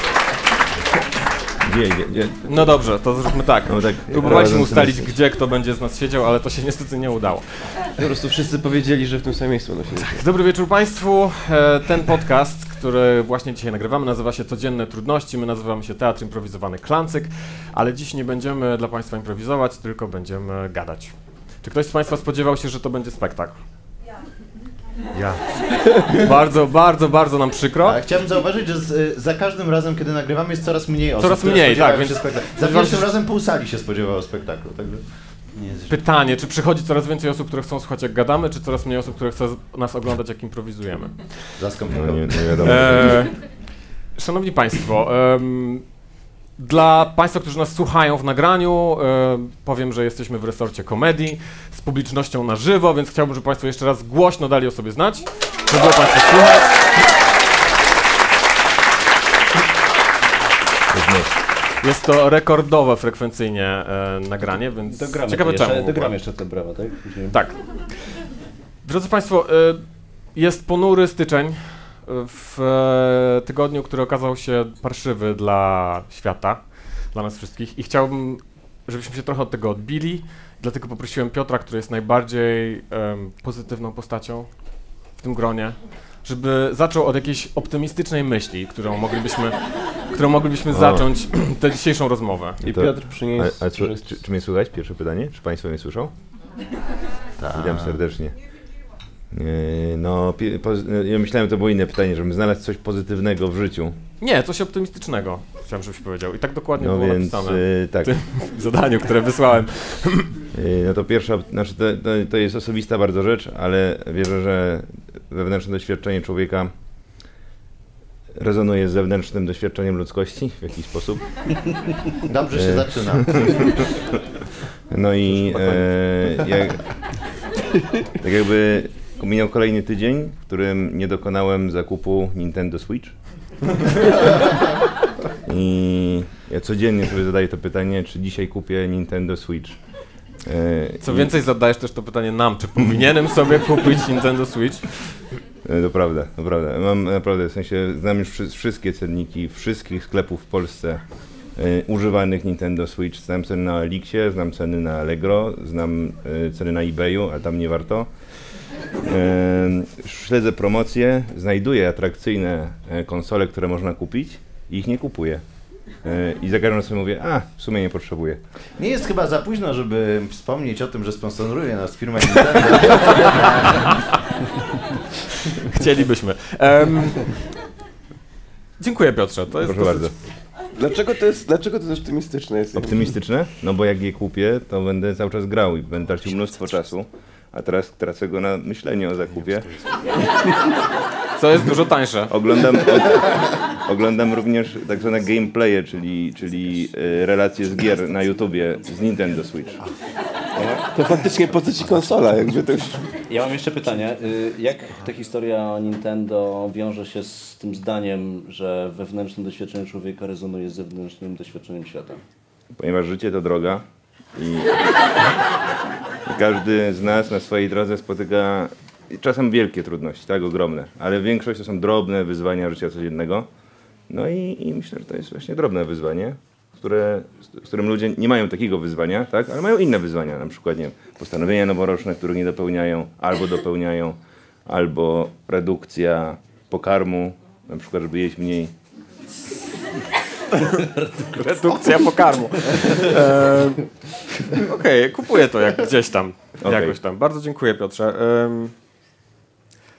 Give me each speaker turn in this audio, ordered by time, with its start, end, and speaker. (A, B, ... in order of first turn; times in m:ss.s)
0:01.6-0:02.8 A
0:02.5-0:07.8 B
0:03.7-0:05.1 A
0:04.2-0:04.8 C
0:08.0-0:10.3 C
0:10.0-0:23.6 B
0:25.2-0:28.0 B
0:27.8-0:36.0 D
0:31.2-0:33.1 B
0:35.9-0:41.3 B
0:41.6-0:43.1 D
0:41.9-0:43.3 A
0:42.6-0:43.5 B
0:44.0-0:46.0 B
0:46.6-0:56.9 B
1:00.9-1:01.4 A
1:01.8-1:06.2 B
1:04.9-1:07.4 E
1:07.3-1:08.1 B
1:08.8-1:32.6 B
1:30.7-1:31.1 A
1:32.6-1:34.2 C
1:32.6-1:36.1 A
1:37.4-1:38.0 D
1:37.5-1:38.4 A
1:39.3-1:44.0 A
1:44.2-1:50.3 B
1:46.8-1:48.2 A
1:50.5-1:56.7 A
1:58.4-2:01.9 A
2:02.2-2:03.8 D
2:02.6-2:03.9 A
2:04.9-2:06.9 A
2:05.5-2:05.8 D
2:08.2-2:13.2 A
2:15.5-2:19.8 A
2:20.4-2:21.3 A
2:21.0-2:25.2 B
2:25.6-2:48.4 A
2:48.8-2:54.0 D
2:55.5-2:57.5 B
2:58.8-3:00.2 B
2:59.6-3:00.1 A
3:00.8-3:03.1 C
3:02.8-3:09.8 A
3:11.4-3:12.4 B
3:12.3-3:19.8 A
3:20.6-3:20.9 E
3:20.8-3:23.1 C
3:23.3-3:32.2 E
3:32.8-3:34.8 A
3:36.3-3:43.5 A
3:44.1-3:58.7 A
4:00.6-4:03.9 B
4:04.4-4:08.7 B
4:06.6-4:07.0 A